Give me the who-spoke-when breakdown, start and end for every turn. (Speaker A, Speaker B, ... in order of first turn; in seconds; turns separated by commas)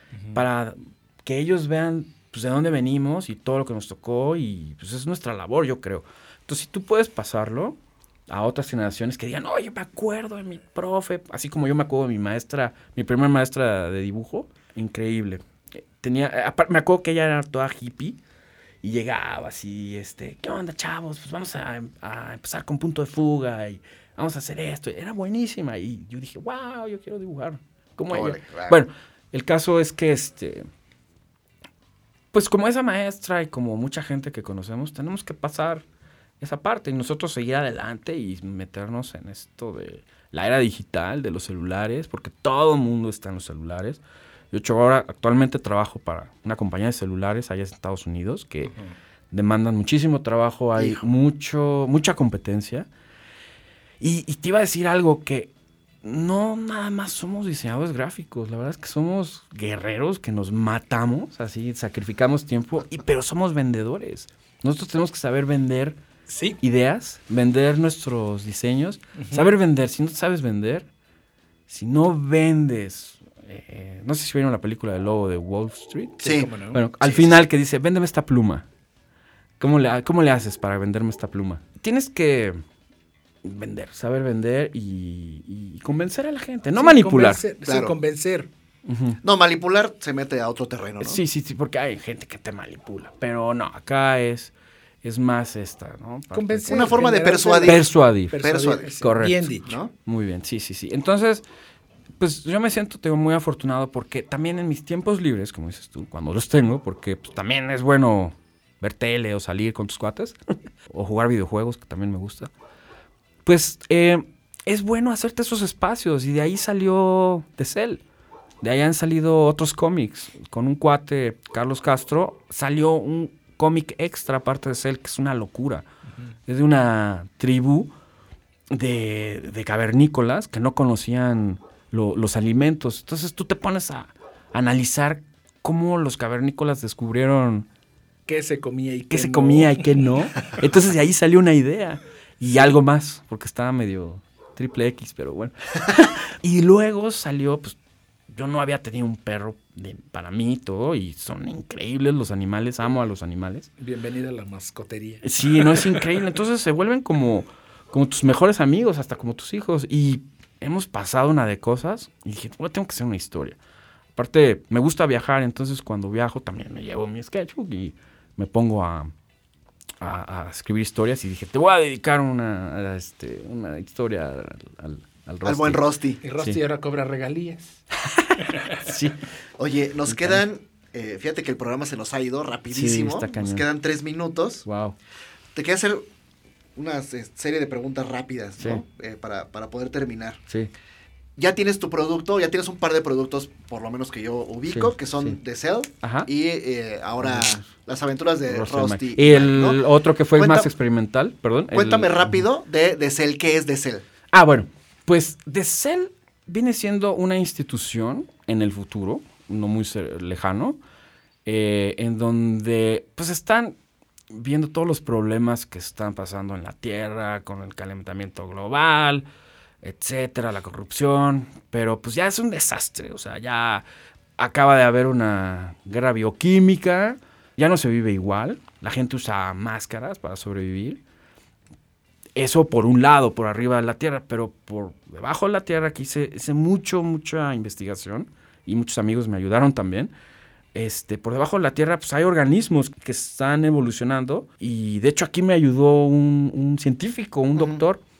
Speaker A: 0.1-0.4, Speaker B: 0.3-15.4, Speaker B: 16.0-18.2, Speaker B: 18.8-30.7, Speaker C: 28.1-28.8, Speaker B: 32.3-35.8, Speaker B: 36.4-44.0, Speaker B: 44.5-48.7, Speaker A: 48.6-49.0, Speaker B: 49.3-52.9, Speaker C: 50.8-51.0, Speaker B: 54.0-55.5, Speaker B: 56.0-66.0, Speaker A: 66.3-66.6, Speaker B: 66.6-70.9, Speaker A: 69.2-69.5, Speaker B: 71.7-78.7, Speaker C: 76.2-76.5, Speaker A: 76.2-76.8, Speaker C: 77.0-77.4, Speaker B: 79.6-82.6, Speaker B: 83.4-87.4, Speaker A: 86.7-88.5, Speaker C: 87.7-87.9, Speaker B: 88.8-89.2, Speaker C: 89.2-91.2, Speaker B: 91.0-94.5, Speaker B: 95.0-97.0, Speaker A: 96.3-99.8, Speaker C: 96.7-97.9, Speaker B: 97.6-98.5, Speaker C: 98.4-98.9, Speaker B: 99.0-101.4, Speaker C: 99.6-99.9, Speaker B: 102.2-112.5, Speaker B: 113.4-118.0, Speaker B: 118.6-125.9, Speaker B: 126.5-127.9, Speaker B: 128.7-137.7, Speaker A: 138.3-139.9, Speaker B: 139.1-147.8, Speaker B: 148.3-153.7, Speaker A: 153.8-156.0, Speaker B: 155.2-163.6, Speaker B: 164.1-169.1, Speaker B: 170.0-175.8, Speaker C: 175.4-176.2, Speaker A: 176.2-177.8, Speaker B: 178.0-179.2, Speaker A: 178.4-178.9, Speaker C: 179.6-184.7, Speaker B: 180.1-180.4, Speaker B: 182.7-183.6, Speaker B: 184.6-184.9, Speaker C: 185.5-186.1, Speaker C: 186.8-190.4, Speaker C: 191.4-200.7, Speaker B: 194.7-195.4, Speaker B: 196.0-196.3, Speaker B: 197.2-197.7, Speaker B: 198.5-202.3, Speaker C: 201.7-204.0, Speaker B: 204.3-210.8, Speaker B: 211.4-213.8, Speaker B: 214.3-219.2, Speaker B: 219.8-223.8, Speaker B: 224.4-231.0, Speaker B: 232.3-240.1, Speaker B: 240.7-248.0, Speaker C: 247.5-247.8